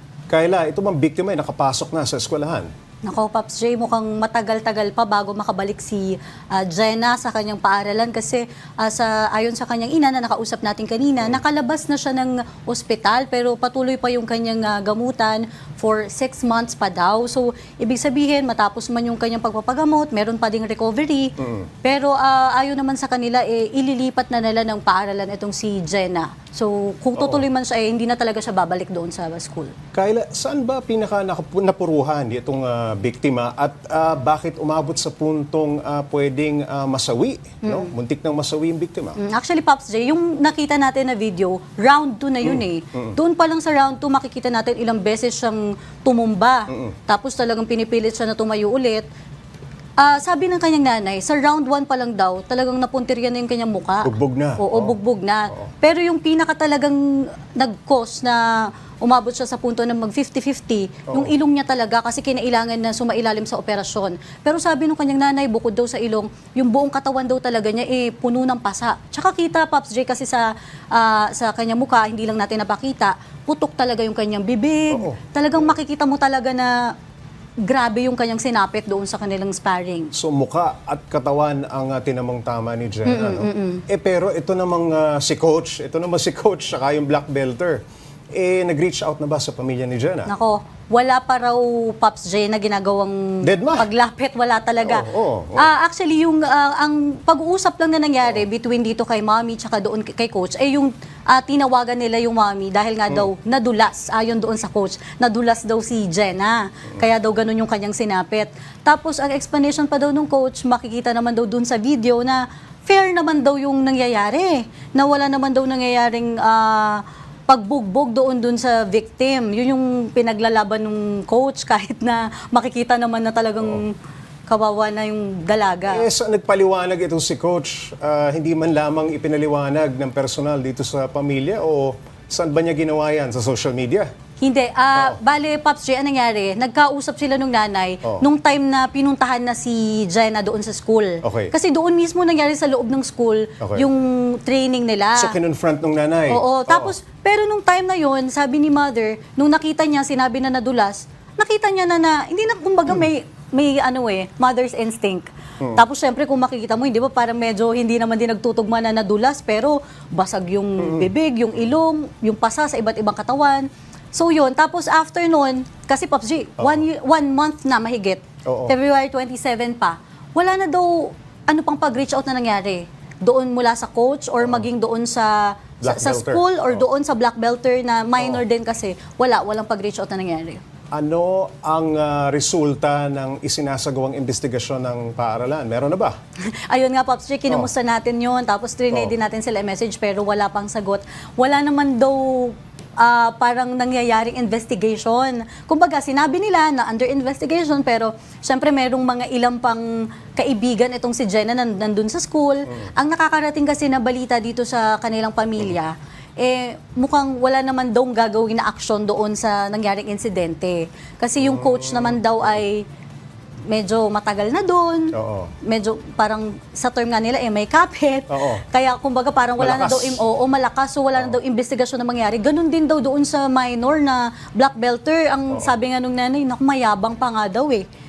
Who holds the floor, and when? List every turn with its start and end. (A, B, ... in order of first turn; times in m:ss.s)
0:00.3-0:02.7 A
0:03.0-0:29.7 B
0:21.4-0:21.7 A
0:27.2-0:27.4 A
0:29.9-0:39.2 A
0:37.6-0:37.9 B
0:39.2-0:49.0 B
0:42.4-0:43.2 A
0:46.7-0:47.0 A
0:50.0-1:16.9 B
0:54.0-0:55.0 A
1:14.9-1:15.7 A
1:17.6-1:20.1 B
1:20.1-1:27.8 A
1:23.0-1:23.8 B
1:28.3-1:30.3 A
1:30.3-2:04.0 B
1:33.4-1:33.9 A
1:34.8-1:35.7 A
2:04.5-2:06.0 B
2:05.9-2:14.1 A
2:14.4-2:25.4 B
2:21.2-2:21.5 A
2:23.6-2:23.9 A
2:25.2-2:26.9 A
2:26.3-3:00.6 B
2:40.8-2:41.1 A
2:46.6-2:46.8 A
2:48.4-2:48.7 A
2:55.8-2:56.8 A
3:00.9-3:06.1 A
3:06.5-3:32.8 B
3:31.4-3:32.2 A
3:33.7-3:47.8 B
3:35.1-3:35.5 A
3:38.3-3:38.6 A
3:39.6-3:40.2 A